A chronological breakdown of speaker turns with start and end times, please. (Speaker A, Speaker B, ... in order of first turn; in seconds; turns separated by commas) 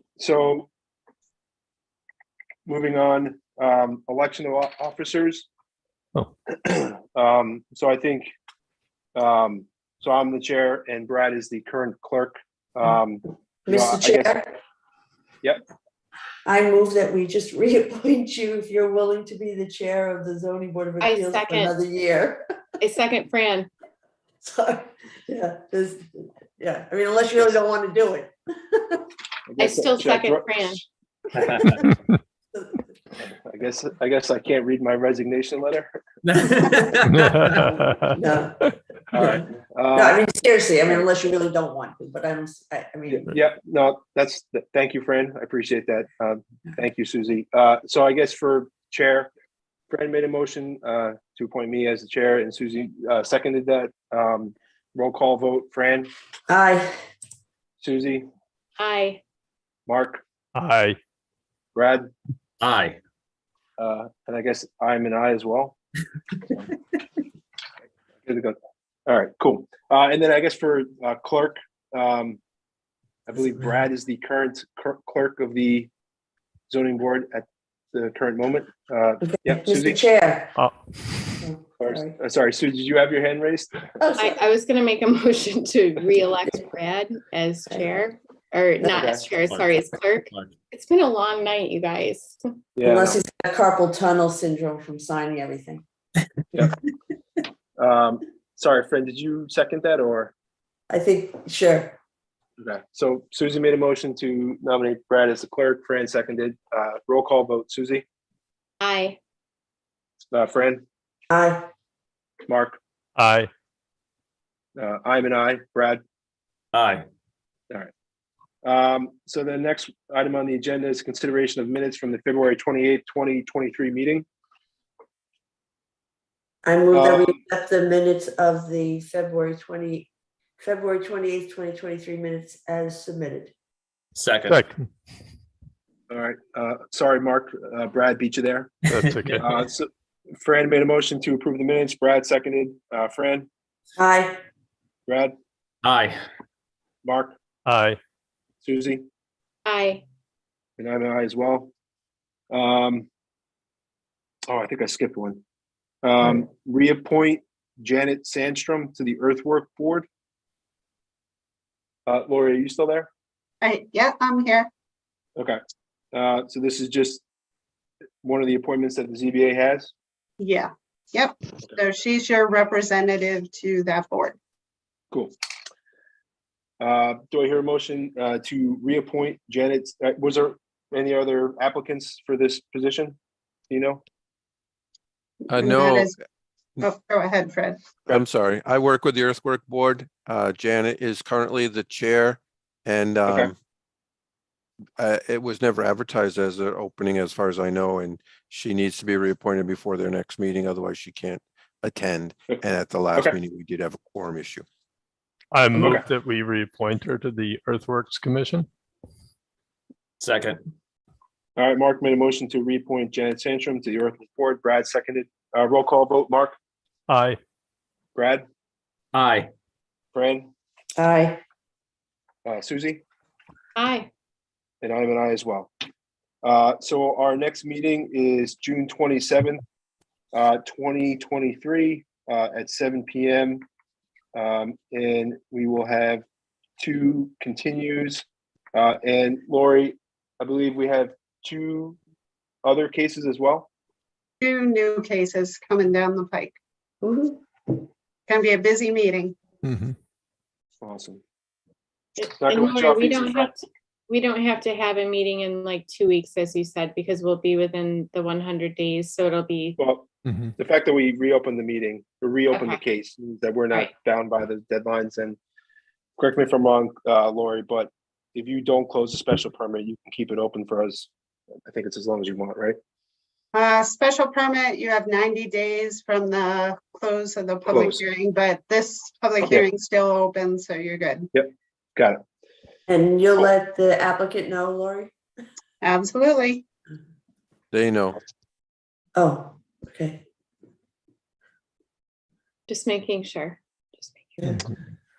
Speaker A: 0.2-0.7, Speaker A: 2.6-5.5, Speaker A: 6.6-8.3, Speaker A: 9.2-14.4, Speaker B: 13.7-14.5, Speaker B: 16.4-22.4, Speaker C: 21.0-21.8, Speaker C: 22.8-23.7, Speaker B: 24.4-29.0, Speaker A: 29.5-30.8, Speaker C: 29.6-30.8, Speaker B: 32.5-32.9, Speaker A: 33.2-36.0, Speaker D: 36.3-37.4, Speaker E: 37.1-38.1, Speaker B: 37.5-38.6, Speaker A: 39.1-40.2, Speaker B: 39.1-43.3, Speaker A: 43.1-49.3, Speaker A: 49.9-56.1, Speaker B: 56.5-56.9, Speaker A: 57.8-58.3, Speaker C: 58.8-59.2, Speaker A: 59.9-60.2, Speaker E: 60.5-61.0, Speaker A: 61.7-62.1, Speaker D: 62.6-63.0, Speaker A: 63.8-65.8, Speaker A: 68.2-68.5, Speaker A: 69.1-72.4, Speaker A: 73.3-75.9, Speaker A: 76.7-80.0, Speaker B: 79.2-80.5, Speaker E: 80.5-81.4, Speaker B: 81.4-82.1, Speaker A: 81.8-83.7, Speaker B: 84.0-84.4, Speaker C: 84.2-92.4, Speaker B: 87.7-88.0, Speaker A: 89.0-89.2, Speaker D: 89.3-90.5, Speaker A: 92.8-93.2, Speaker B: 92.8-95.8, Speaker A: 97.8-100.3, Speaker B: 100.9-102.0, Speaker A: 102.6-108.0, Speaker C: 108.8-109.2, Speaker A: 110.3-110.8, Speaker B: 111.3-111.7, Speaker A: 112.5-112.8, Speaker E: 113.2-113.5, Speaker A: 114.8-116.0, Speaker D: 116.7-117.0, Speaker A: 118.6-124.2, Speaker B: 126.6-133.5, Speaker A: 126.9-127.3, Speaker D: 134.1-134.6, Speaker E: 134.4-134.8, Speaker A: 136.1-138.7, Speaker E: 138.9-139.4, Speaker D: 138.9-139.4, Speaker A: 139.4-139.9, Speaker A: 140.4-143.5, Speaker B: 144.0-144.4, Speaker A: 145.1-145.3, Speaker D: 145.8-146.2, Speaker A: 147.0-147.3, Speaker E: 147.7-148.0, Speaker A: 148.6-149.0, Speaker C: 149.6-150.0, Speaker A: 150.8-151.7, Speaker A: 152.5-153.1, Speaker A: 154.5-155.4, Speaker A: 156.0-160.1, Speaker A: 162.1-163.1, Speaker F: 163.6-164.7, Speaker A: 166.1-167.2, Speaker A: 168.2-169.9, Speaker F: 170.4-174.3, Speaker A: 176.8-183.2, Speaker A: 183.7-184.0, Speaker G: 185.5-186.1, Speaker F: 185.5-186.1, Speaker F: 186.8-187.8, Speaker G: 188.1-193.6, Speaker G: 195.0-204.7, Speaker E: 205.5-208.7, Speaker A: 205.7-206.1, Speaker D: 210.2-210.6, Speaker A: 211.6-216.6, Speaker E: 217.1-217.4, Speaker A: 218.1-218.4, Speaker D: 219.1-219.5, Speaker A: 220.1-220.5, Speaker B: 221.0-221.4, Speaker A: 222.4-223.0, Speaker C: 223.8-224.1, Speaker A: 224.8-225.7, Speaker A: 226.4-229.6, Speaker A: 230.3-233.6, Speaker A: 234.3-236.2, Speaker A: 236.8-242.0, Speaker A: 242.6-243.7, Speaker F: 244.4-246.6, Speaker B: 247.0-247.4, Speaker F: 248.3-249.3, Speaker A: 250.8-251.2, Speaker C: 252.2-259.8, Speaker A: 252.4-253.5, Speaker A: 259.8-265.4, Speaker C: 262.5-262.8, Speaker A: 266.2-271.1, Speaker A: 271.6-272.8, Speaker F: 273.5-281.3, Speaker A: 277.6-278.0, Speaker A: 281.3-282.2, Speaker B: 282.9-285.1, Speaker F: 285.8-286.6, Speaker G: 287.7-288.2, Speaker B: 289.1-290.2, Speaker C: 292.7-294.5